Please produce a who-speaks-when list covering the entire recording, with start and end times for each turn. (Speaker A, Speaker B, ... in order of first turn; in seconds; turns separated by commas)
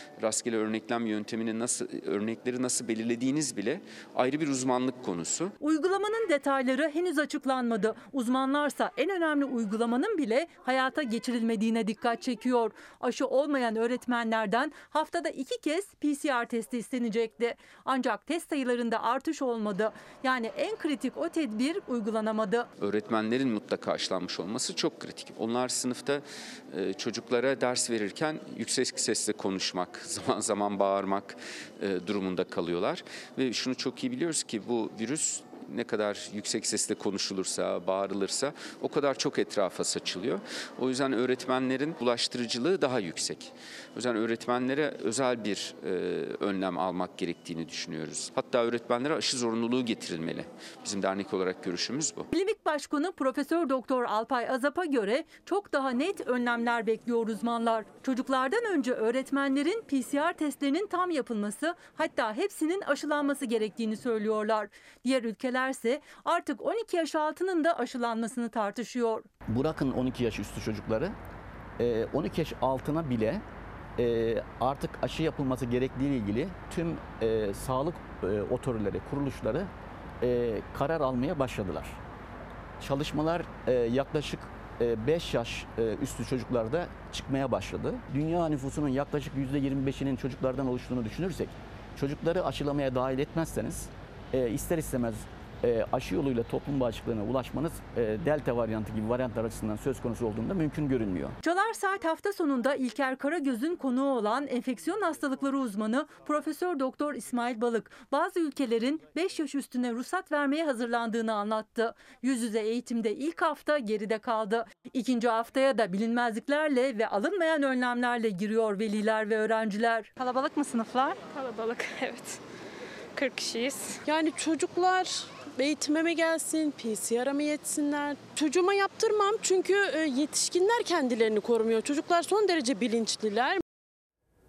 Speaker A: 0.2-5.5, Speaker B: 5.6-22.7, Speaker A: 22.8-52.3, Speaker B: 52.3-69.2, Speaker C: 69.5-71.1, Speaker C: 71.8-73.4, Speaker C: 74.0-82.0, Speaker C: 82.8-101.3, Speaker B: 101.4-121.2, Speaker D: 121.3-122.4, Speaker D: 123.1-124.0, Speaker E: 124.0-133.6